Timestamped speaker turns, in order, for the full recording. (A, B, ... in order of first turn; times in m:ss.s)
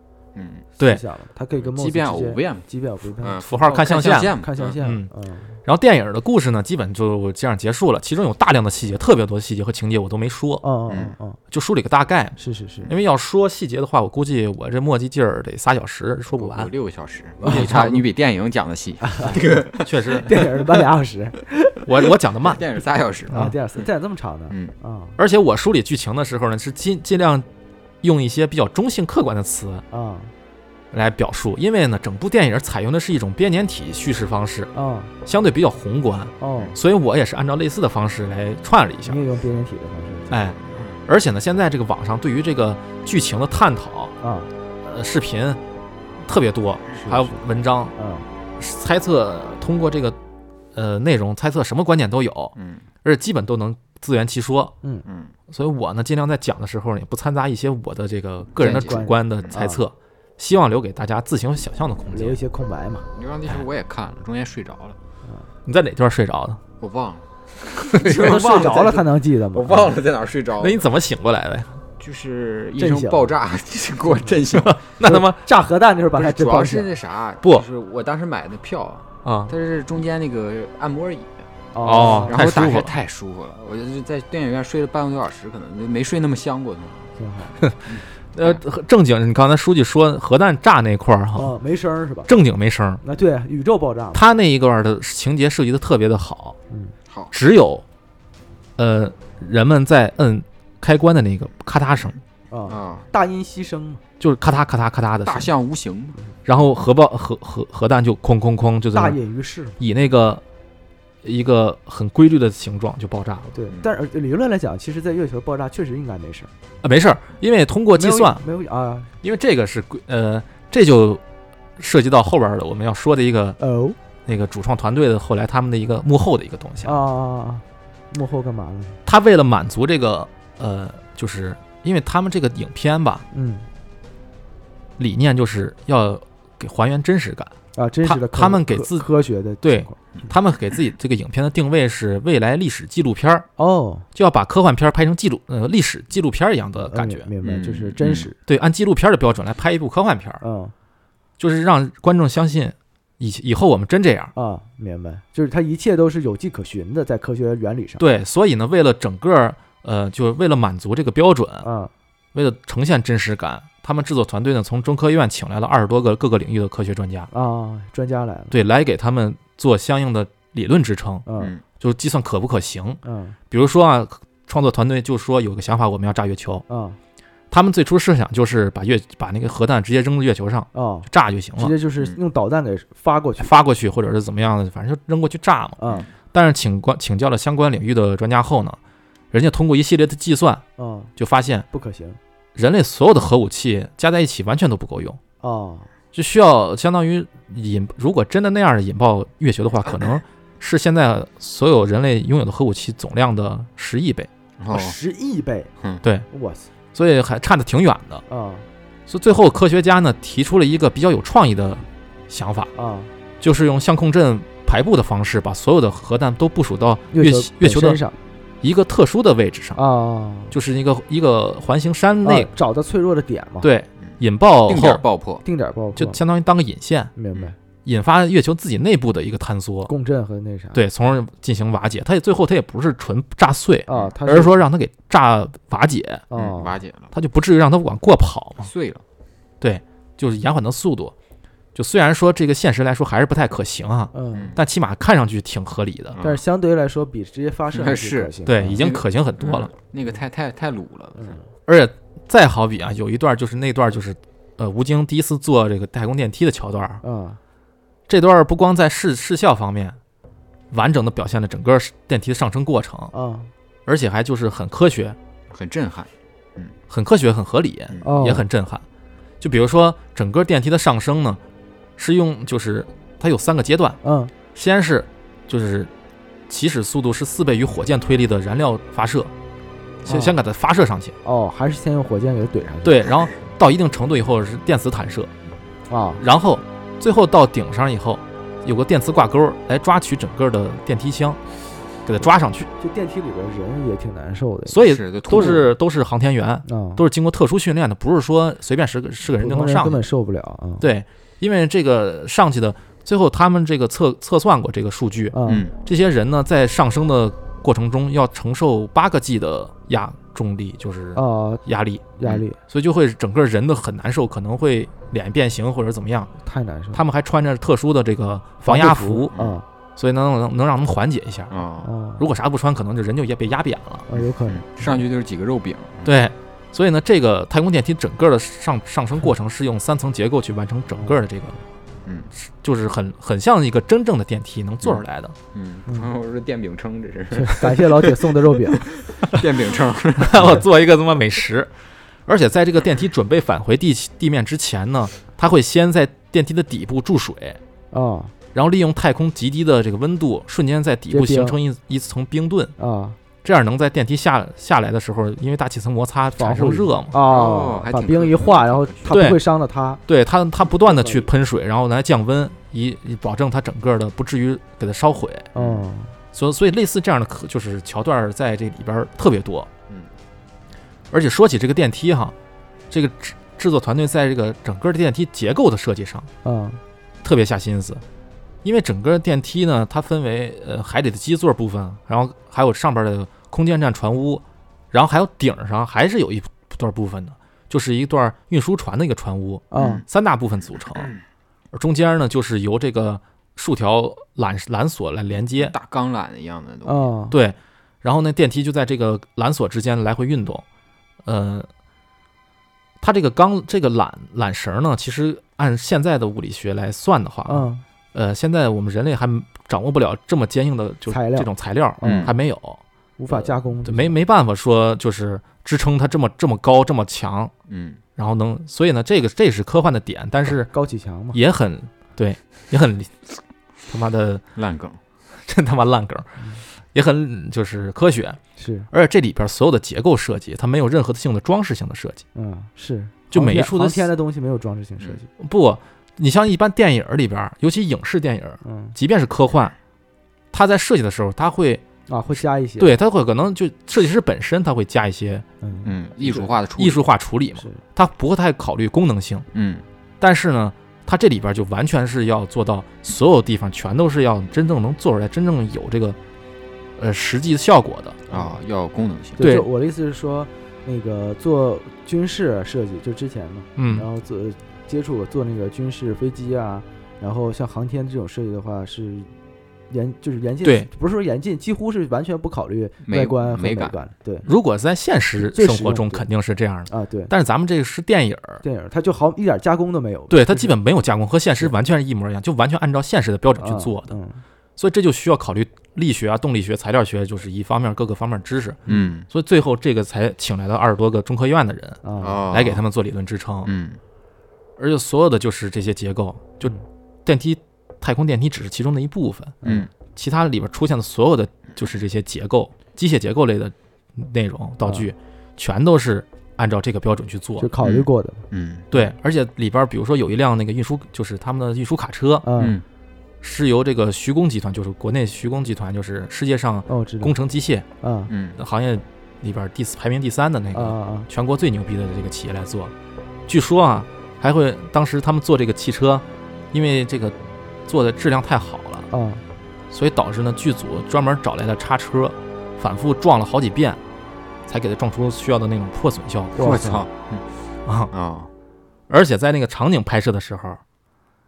0:00.4-0:00.7 A
0:00.8-0:05.6 B
0:01.6-0:02.7 A
0:03.2-0:04.8 A
0:03.5-0:05.1 C
0:05.6-0:10.7 C
0:10.6-0:11.4 B
0:10.9-0:11.2 A
0:11.5-0:16.7 C
0:12.4-0:12.9 B
0:16.3-0:20.7 A
0:17.4-0:18.0 B
0:17.4-0:18.0 C
0:19.0-0:19.6 B
0:19.8-0:20.3 C
0:20.2-0:21.8 B
0:21.8-0:22.6 C
0:22.4-0:23.8 A
0:23.3-0:25.2 B
0:25.2-0:27.5 C
0:28.0-0:29.8 C
0:29.9-0:30.3 B
0:30.9-0:34.7 C
0:34.7-0:35.1 B
0:35.2-0:39.2 C
0:36.4-0:36.8 B
0:39.1-0:40.5 B
0:40.3-0:44.1 C
0:40.6-0:41.0 A
0:44.2-0:44.5 B
0:44.8-0:45.6 C
0:46.2-0:47.9 C
0:47.0-0:47.4 B
0:48.0-0:48.3 B
0:48.6-0:50.2 C
0:50.7-0:54.7 C
0:52.6-0:52.9 A
0:55.1-0:55.3 A
0:55.5-1:02.4 C
0:58.6-0:59.6 A
0:58.6-0:59.8 B
1:02.1-1:03.1 B
1:03.1-1:05.0 A
1:05.7-1:06.6 C
1:06.8-1:10.9 A
1:07.9-1:08.4 C
1:08.1-1:10.0 B
1:10.6-1:11.8 C
1:12.0-1:14.8 A
1:12.8-1:13.3 B
1:14.5-1:15.4 C
1:15.0-1:16.9 B
1:16.2-1:21.4 A
1:19.2-1:19.5 C
1:21.7-1:22.4 B
1:21.8-1:22.9 C
1:22.3-1:27.1 A
1:27.2-1:27.6 B
1:27.6-1:31.6 C
1:27.9-1:28.6 A
1:31.4-1:32.3 B
1:32.3-1:33.0 C
1:33.0-1:34.2 B
1:34.1-1:36.6 C
1:37.3-1:37.8 C
1:38.8-1:42.2 C
1:42.5-1:44.0 B
1:42.7-1:43.1 A
1:44.2-1:45.5 C
1:45.3-1:46.2 A
1:46.5-1:49.2 C
1:48.9-1:49.8 B
1:49.8-1:50.4 C
1:51.2-1:53.5 C
1:53.5-1:56.5 B
1:56.8-1:58.4 C
1:57.9-1:59.1 B
1:59.2-2:01.2 C
2:01.8-2:03.6 C
2:03.6-2:04.0 B
2:04.2-2:07.0 C
2:06.8-2:09.0 B
2:09.1-2:13.2 C
2:13.3-2:13.7 B
2:15.0-2:19.1 C
2:17.8-2:20.0 B
2:19.6-2:23.5 C
2:23.6-2:24.1 B
2:24.2-2:27.3 C
2:26.8-2:28.4 B
2:27.4-2:28.3 A
2:28.5-2:30.4 C
2:30.4-2:30.7 B
2:31.4-2:34.3 C
2:34.4-2:38.0 B
2:38.0-2:41.7 C
2:41.6-2:41.9 B
2:42.3-2:47.3 C
2:47.3-2:48.6 B
2:48.5-2:51.2 C
2:51.3-2:51.5 B
2:51.8-2:53.0 C
2:53.0-2:53.4 B
2:53.5-2:56.6 C
2:56.7-2:57.0 B
2:57.5-3:01.7 C
3:00.7-3:03.5 B
3:03.4-3:05.8 C
3:05.8-3:06.1 B
3:06.3-3:08.8 C
3:09.3-3:10.6 C
3:10.8-3:11.1 B
3:11.2-3:11.7 C
3:11.7-3:12.2 B
3:12.6-3:15.2 C
3:15.4-3:15.9 B
3:16.1-3:24.3 C
3:24.6-3:25.0 A
3:24.7-3:25.7 B
3:26.3-3:26.7 B
3:26.9-3:28.2 C
3:28.3-3:28.7 B
3:29.1-3:32.7 C
3:32.8-3:33.1 B
3:33.4-3:38.0 C
3:37.1-3:38.2 B
3:38.6-3:39.8 C
3:39.8-3:40.6 B
3:40.5-3:42.5 C
3:42.2-3:43.7 B
3:43.6-3:45.0 C
3:44.0-3:45.4 A
3:45.4-3:46.2 B
3:46.0-3:47.1 C
3:47.2-3:47.6 B
3:47.8-3:49.9 C
3:49.9-3:50.8 B
3:50.7-3:56.2 C
3:53.9-3:54.6 B
3:56.3-3:56.8 B
3:56.3-3:57.1 A
3:57.1-3:58.7 C
3:58.6-3:59.0 A
3:59.6-4:01.1 C
4:01.8-4:06.2 C
4:04.1-4:04.5 B
4:04.3-4:04.6 A
4:06.1-4:06.4 A
4:06.2-4:08.8 B
4:07.7-4:11.4 A
4:08.5-4:09.7 C
4:11.2-4:11.4 B
4:11.7-4:17.0 C
4:17.0-4:17.4 B
4:18.1-4:20.0 C
4:20.7-4:23.1 C
4:23.1-4:23.5 B
4:23.9-4:25.2 C
4:25.5-4:26.7 A
4:26.9-4:28.8 C
4:28.0-4:28.4 B
4:29.4-4:31.4 C
4:32.0-4:34.0 C
4:34.0-4:34.3 B
4:34.5-4:35.9 C
4:36.5-4:39.3 C
4:40.0-4:41.2 C
4:40.1-4:40.4 B
4:41.2-4:43.0 B
4:42.8-4:45.3 C
4:45.9-4:46.2 B
4:46.2-4:51.4 C
4:52.1-4:52.7 C
4:52.8-4:54.8 B
4:54.7-5:00.0 C
4:54.8-4:55.7 A
4:55.3-4:55.6 B
4:56.7-4:57.0 B
4:59.4-5:00.8 B
5:00.8-5:12.1 C
5:05.3-5:05.6 B
5:05.5-5:05.7 A
5:11.2-5:11.6 B
5:12.2-5:12.6 B
5:12.7-5:16.3 C
5:16.4-5:17.0 B
5:16.9-5:19.3 C
5:18.6-5:19.6 B
5:19.3-5:19.6 A
5:20.0-5:21.5 C
5:21.5-5:21.9 A
5:21.8-5:22.2 B
5:22.2-5:24.1 C
5:24.1-5:25.0 B
5:24.1-5:26.2 A
5:26.0-5:31.6 C
5:32.1-5:32.3 A
5:32.4-5:35.4 C
5:34.8-5:40.6 A
5:37.3-5:38.8 B
5:40.2-5:41.7 C
5:42.3-5:47.6 C
5:47.9-5:48.3 B
5:48.5-5:52.7 C
5:51.1-5:51.6 B
5:52.8-5:53.2 B
5:53.4-5:57.2 C
5:56.4-6:00.0 B
5:57.2-5:59.2 A
5:59.1-5:59.4 C
6:00.1-6:05.5 C
6:00.7-6:01.3 B
6:05.6-6:05.9 A
6:05.6-6:06.1 B
6:06.3-6:09.7 C
6:11.1-6:12.4 C
6:12.9-6:16.3 C
6:16.4-6:16.8 B
6:17.2-6:18.0 C
6:18.6-6:31.1 C
6:29.7-6:30.0 B
6:29.8-6:30.0 A
6:31.7-6:35.8 C
6:35.5-6:37.1 A
6:36.8-6:37.4 B
6:37.3-6:40.6 C
6:41.2-6:41.7 C
6:43.0-6:52.8 C
6:47.5-6:47.8 B
6:51.1-6:52.3 B
6:52.0-6:52.3 A
6:53.2-6:54.2 B
6:53.3-6:57.5 C
6:57.7-6:58.0 A
6:58.2-7:00.7 C
7:00.7-7:01.4 B
7:01.3-7:03.2 C
7:03.9-7:04.4 C
7:04.6-7:05.0 A
7:05.4-7:06.4 C
7:06.9-7:08.4 C
7:08.6-7:08.9 B
7:08.9-7:12.2 C
7:12.4-7:15.3 B
7:13.3-7:14.1 C
7:15.4-7:19.8 C
7:18.6-7:19.0 B
7:20.5-7:21.8 C
7:22.1-7:22.9 B
7:22.8-7:25.4 C
7:25.6-7:26.5 B
7:25.8-7:27.0 A
7:26.8-7:29.5 C
7:27.6-7:27.8 B
7:29.5-7:29.8 A
7:30.2-7:36.2 C
7:37.0-7:38.3 C
7:38.3-7:39.4 A
7:39.4-7:49.3 B
7:39.4-7:39.7 C
7:43.8-7:44.1 C
7:49.9-7:54.5 B
7:53.0-7:54.0 A
7:54.4-7:58.6 C
7:55.5-7:56.2 B
7:56.9-7:57.3 B
7:58.6-8:00.7 B
8:00.3-8:04.2 C
8:03.6-8:04.4 B
8:04.8-8:12.0 C
8:08.9-8:09.3 A
8:12.0-8:12.4 B
8:12.2-8:12.8 A
8:12.5-8:13.7 C
8:13.6-8:14.0 A
8:14.8-8:19.6 C
8:19.6-8:19.9 A
8:20.2-8:27.7 C
8:24.8-8:25.1 B
8:27.6-8:28.4 B
8:27.8-8:28.9 A
8:28.9-8:32.5 C
8:32.4-8:32.8 B
8:32.6-8:32.8 A
8:33.4-8:37.9 C
8:36.9-8:37.3 B
8:38.0-8:38.3 B
8:38.3-8:38.6 A
8:38.6-8:42.9 C
8:40.7-8:41.3 B
8:43.5-8:47.4 C
8:47.9-8:49.1 C
8:49.1-8:49.4 B
8:49.9-8:54.0 C
8:54.7-8:56.8 C
8:56.6-8:57.0 B
8:56.6-8:57.4 A
8:57.9-8:58.1 C
8:58.1-8:58.5 A
8:59.1-9:00.8 C